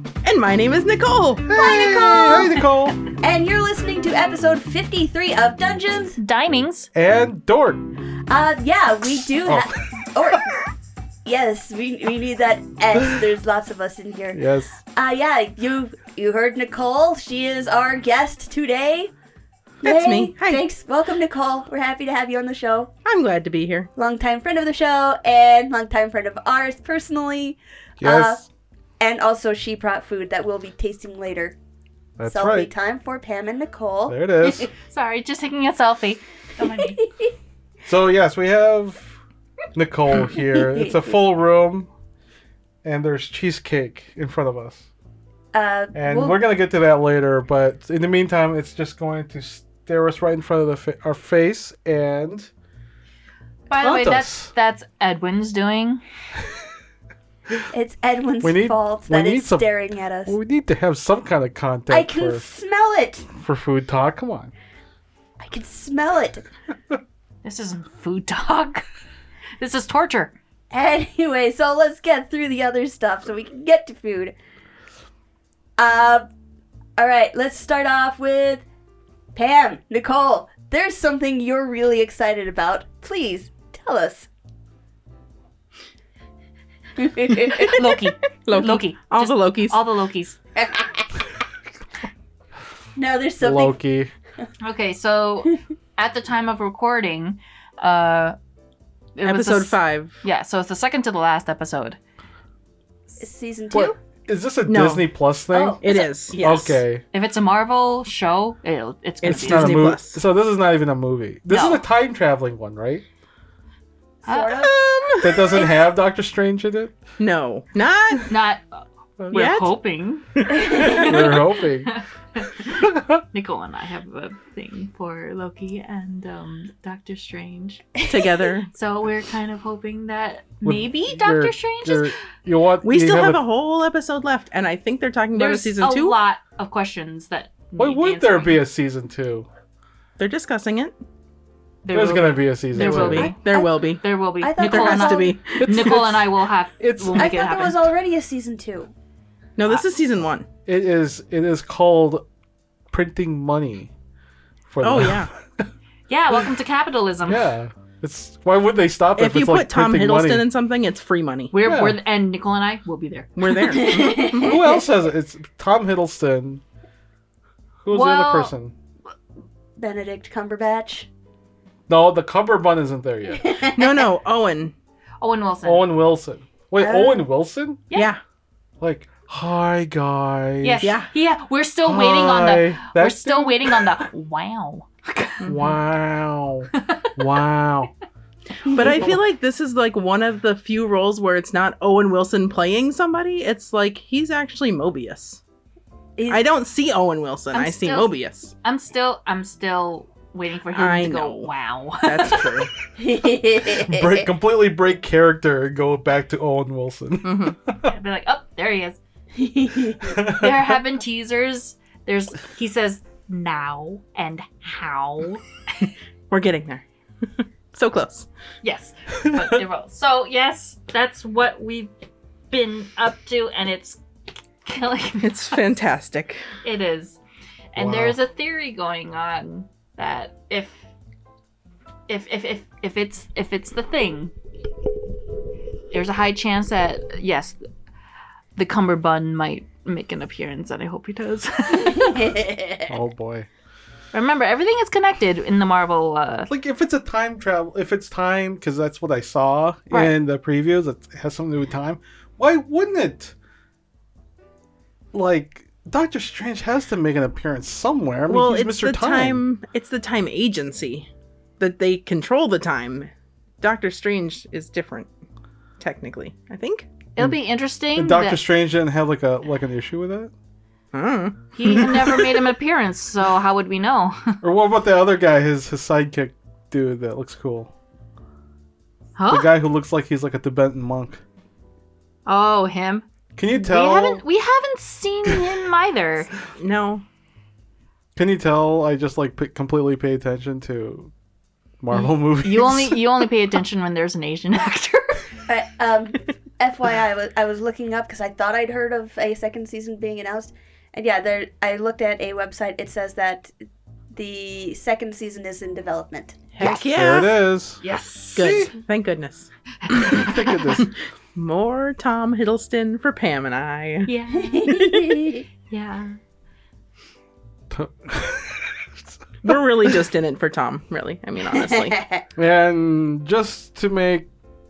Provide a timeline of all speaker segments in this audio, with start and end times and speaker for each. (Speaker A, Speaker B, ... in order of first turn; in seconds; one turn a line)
Speaker A: 0.2-1.5
Speaker B: 1.5-3.0
Speaker C: 1.5-2.6
Speaker C: 3.2-6.2
Speaker D: 6.2-6.9
Speaker B: 6.9-7.8
Speaker C: 8.3-10.5
Speaker B: 9.1-9.9
Speaker C: 11.2-14.4
Speaker B: 12.9-13.3
Speaker B: 14.3-14.8
Speaker C: 14.9-19.1
Speaker C: 19.8-22.9
Speaker A: 19.8-20.6
Speaker A: 23.1-23.9
Speaker C: 24.0-28.4
Speaker B: 28.0-28.5
Speaker C: 29.0-31.6
Speaker B: 32.2-32.7
Speaker C: 32.2-34.7
Speaker B: 34.1-34.7
Speaker D: 34.8-37.0
Speaker C: 36.8-37.3
Speaker B: 37.9-39.2
Speaker B: 39.7-41.9
Speaker C: 40.4-40.9
Speaker B: 42.8-44.9
Speaker C: 45.5-46.4
Speaker B: 46.0-52.5
Speaker D: 53.7-56.0
Speaker B: 53.7-54.5
Speaker C: 57.7-60.4
Speaker B: 58.4-59.7
Speaker B: 60.3-62.5
Speaker C: 61.9-63.3
Speaker B: 63.3-64.5
Speaker C: 65.4-66.5
Speaker D: 67.4-68.8
Speaker D: 69.6-70.3
Speaker C: 70.7-74.3
Speaker C: 75.8-76.3
Speaker C: 77.0-78.6
Speaker C: 79.3-84.3
Speaker C: 87.0-87.9
Speaker D: 87.6-90.4
Speaker A: 88.5-89.8
Speaker C: 90.6-91.0
Speaker C: 93.0-93.8
Speaker B: 93.4-94.1
Speaker D: 94.6-98.4
Speaker D: 99.2-102.0
Speaker A: 99.2-100.2
Speaker C: 103.2-104.0
Speaker B: 103.7-105.8
Speaker A: 104.7-105.1
Speaker C: 105.5-106.1
Speaker A: 105.8-106.8
Speaker B: 106.4-107.0
Speaker D: 107.1-109.9
Speaker A: 109.2-110.2
Speaker B: 109.2-113.0
Speaker D: 111.5-111.8
Speaker C: 114.2-114.7
Speaker D: 114.3-114.6
Speaker A: 114.5-115.6
Speaker B: 115.2-117.0
Speaker C: 115.5-115.9
Speaker A: 117.2-118.3
Speaker D: 118.3-118.8
Speaker D: 119.3-127.9
Speaker A: 119.3-119.7
Speaker A: 120.4-121.0
Speaker C: 120.6-120.9
Speaker B: 120.8-121.9
Speaker B: 122.8-123.2
Speaker A: 128.1-128.7
Speaker D: 128.7-132.1
Speaker B: 130.7-133.4
Speaker A: 132.8-136.2
Speaker D: 135.3-138.6
Speaker B: 137.8-139.5
Speaker A: 140.2-140.9
Speaker D: 141.8-143.4
Speaker B: 141.9-143.3
Speaker A: 142.8-144.0
Speaker C: 143.1-143.9
Speaker D: 144.0-147.9
Speaker C: 144.4-145.4
Speaker A: 144.6-146.0
Speaker B: 145.6-146.3
Speaker B: 146.8-147.6
Speaker C: 147.1-148.9
Speaker A: 149.6-150.5
Speaker B: 150.7-152.2
Speaker B: 152.9-153.9
Speaker B: 154.7-155.7
Speaker A: 154.8-155.3
Speaker D: 156.1-157.5
Speaker B: 157.2-160.5
Speaker A: 159.2-161.5
Speaker D: 161.5-163.3
Speaker B: 161.6-162.0
Speaker A: 163.4-164.8
Speaker C: 163.7-164.8
Speaker B: 164.4-166.6
Speaker B: 167.8-168.8
Speaker D: 167.9-168.5
Speaker C: 169.8-171.1
Speaker B: 171.9-173.5
Speaker C: 173.3-174.1
Speaker A: 173.8-174.7
Speaker D: 175.2-175.9
Speaker B: 175.6-177.8
Speaker C: 176.8-177.2
Speaker A: 177.9-178.2
Speaker B: 178.8-181.0
Speaker D: 180.6-185.5
Speaker A: 180.8-181.1
Speaker B: 181.8-184.0
Speaker B: 185.5-187.9
Speaker D: 186.8-187.1
Speaker C: 188.7-189.1
Speaker A: 188.7-195.4
Speaker A: 196.3-198.5
Speaker D: 197.5-198.1
Speaker D: 198.6-202.7
Speaker A: 200.7-201.5
Speaker A: 202.0-202.7
Speaker C: 203.0-204.3
Speaker B: 203.7-207.9
Speaker A: 207.2-207.6
Speaker D: 207.8-209.0
Speaker C: 209.4-210.2
Speaker B: 210.0-210.8
Speaker D: 210.3-215.4
Speaker A: 216.3-216.8
Speaker A: 217.7-218.3
Speaker D: 218.6-221.9
Speaker D: 222.5-224.0
Speaker D: 224.7-225.6
Speaker A: 225.2-226.4
Speaker D: 226.6-227.2
Speaker D: 227.7-230.8
Speaker B: 227.8-228.2
Speaker D: 232.1-234.3
Speaker D: 235.9-237.6
Speaker D: 238.6-242.3
Speaker C: 241.7-242.9
Speaker B: 242.9-243.5
Speaker D: 244.1-246.5
Speaker B: 246.5-253.3
Speaker B: 255.1-259.4
Speaker A: 258.3-261.1
Speaker A: 261.6-263.1
Speaker A: 263.6-265.1
Speaker A: 265.8-266.9
Speaker D: 267.2-268.4
Speaker B: 267.9-270.3
Speaker A: 270.9-272.3
Speaker D: 271.6-274.4
Speaker B: 274.4-277.7
Speaker D: 279.2-279.5
Speaker B: 279.3-281.2
Speaker D: 282.3-286.3
Speaker B: 283.4-284.2
Speaker A: 286.6-287.1
Speaker B: 288.2-291.1
Speaker B: 291.8-293.3
Speaker D: 291.9-295.3
Speaker C: 295.5-303.5
Speaker C: 304.1-306.5
Speaker A: 306.5-307.4
Speaker B: 306.6-307.8
Speaker D: 307.8-308.6
Speaker A: 308.4-309.5
Speaker B: 308.4-308.7
Speaker D: 309.8-310.8
Speaker B: 310.0-310.9
Speaker A: 310.8-314.1
Speaker D: 314.1-314.9
Speaker C: 314.3-315.4
Speaker A: 314.7-315.1
Speaker D: 315.7-316.2
Speaker B: 317.7-320.0
Speaker A: 319.4-322.0
Speaker C: 321.6-322.2
Speaker B: 322.4-324.3